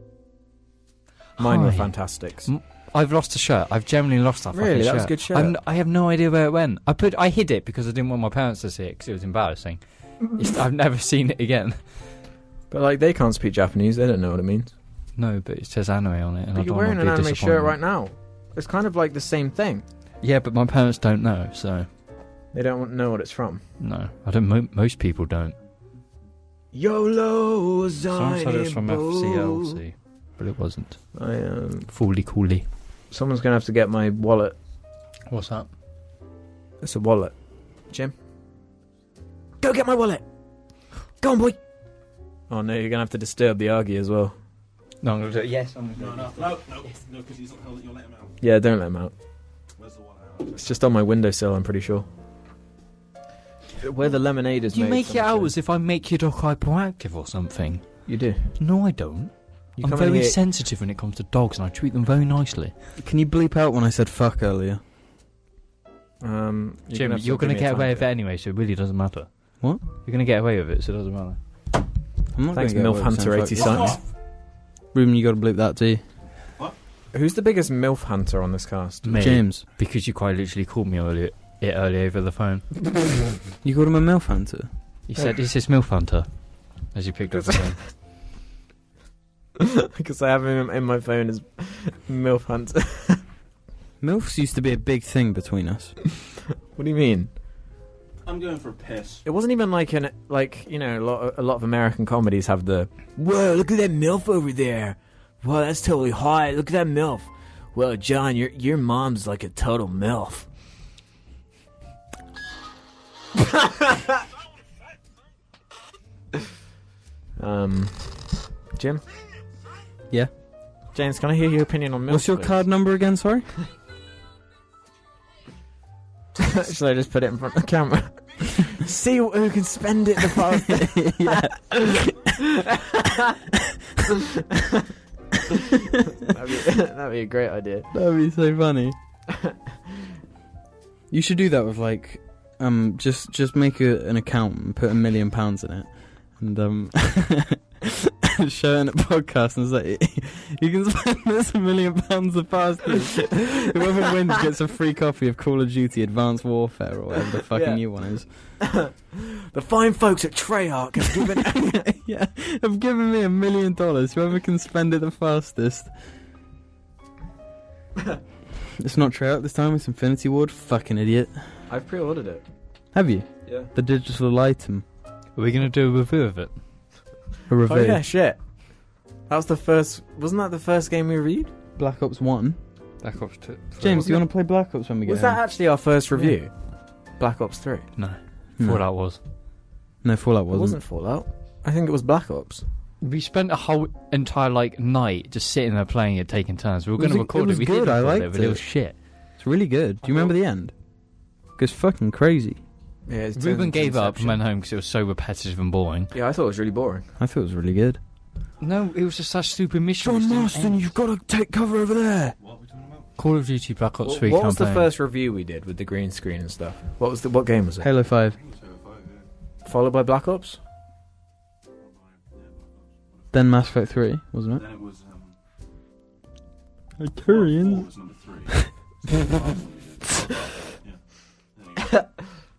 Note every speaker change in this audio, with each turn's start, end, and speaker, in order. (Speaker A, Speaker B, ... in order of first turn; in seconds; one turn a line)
Speaker A: 1.4-2.5
Speaker B: 1.4-11.8
Speaker A: 4.5-5.6
Speaker A: 12.7-14.7
Speaker B: 15.2-17.8
Speaker A: 16.5-19.9
Speaker B: 20.2-21.9
Speaker A: 22.5-23.6
Speaker B: 23.8-25.6
Speaker A: 26.7-29.8
Speaker B: 28.1-31.0
Speaker A: 31.1-31.9
Speaker B: 31.9-32.6
Speaker A: 33.1-34.6
Speaker B: 35.3-35.7
Speaker A: 36.8-37.3
Speaker A: 39.6-40.2
Speaker A: 41.2-41.6
Speaker A: 42.5-44.4
Speaker B: 45.0-46.7
Speaker C: 46.0-48.4
Speaker A: 48.4-49.1
Speaker C: 49.8-50.7
Speaker A: 50.5-52.1
Speaker A: 53.8-55.5
Speaker B: 54.7-62.7
Speaker A: 58.1-58.4
Speaker A: 59.8-60.4
Speaker D: 63.0-64.8
Speaker A: 66.2-68.1
Speaker B: 66.9-71.4
Speaker D: 72.3-74.0
Speaker A: 72.5-74.0
Speaker C: 73.5-74.0
Speaker D: 74.9-76.0
Speaker A: 77.1-79.2
Speaker B: 79.0-82.7
Speaker D: 79.2-79.6
Speaker D: 83.6-84.7
Speaker B: 85.1-86.3
Speaker B: 86.9-87.8
Speaker A: 89.6-93.2
Speaker D: 94.0-96.0
Speaker A: 96.8-97.3
Speaker C: 98.2-99.2
Speaker A: 99.2-110.5
Speaker A: 113.4-114.0
Speaker A: 117.4-119.0
Speaker A: 120.9-122.6
Speaker D: 122.1-123.5
Speaker A: 126.3-133.4
Speaker D: 130.6-131.9
Speaker A: 134.1-134.8
Speaker A: 135.5-137.9
Speaker D: 137.9-139.0
Speaker A: 139.3-139.6
Speaker D: 141.1-158.3
Speaker A: 157.5-157.8
Speaker A: 158.6-161.9
Speaker D: 161.7-165.9
Speaker D: 168.8-171.5
Speaker A: 171.7-172.4
Speaker D: 172.9-174.8
Speaker B: 175.4-176.5
Speaker D: 177.5-178.0
Speaker A: 177.6-178.4
Speaker A: 179.3-181.5
Speaker D: 181.8-182.6
Speaker B: 183.0-184.2
Speaker D: 183.8-185.4
Speaker A: 183.9-184.2
Speaker A: 185.1-186.5
Speaker A: 187.2-187.9
Speaker B: 188.0-189.2
Speaker D: 188.6-188.8
Speaker D: 190.0-190.8
Speaker A: 190.5-192.6
Speaker B: 193.0-198.9
Speaker D: 197.0-198.7
Speaker D: 199.4-200.7
Speaker A: 200.0-200.3
Speaker D: 201.6-202.6
Speaker A: 203.1-204.4
Speaker B: 203.4-206.1
Speaker A: 206.1-207.0
Speaker D: 207.2-208.0
Speaker B: 208.6-210.9
Speaker A: 210.0-212.4
Speaker C: 212.4-213.1
Speaker B: 213.2-214.9
Speaker A: 214.0-217.9
Speaker D: 217.8-218.4
Speaker C: 218.3-219.3
Speaker A: 219.6-220.6
Speaker C: 221.8-223.6
Speaker D: 223.3-224.6
Speaker C: 224.5-225.3
Speaker D: 227.0-227.9
Speaker C: 227.2-231.0
Speaker C: 231.6-232.0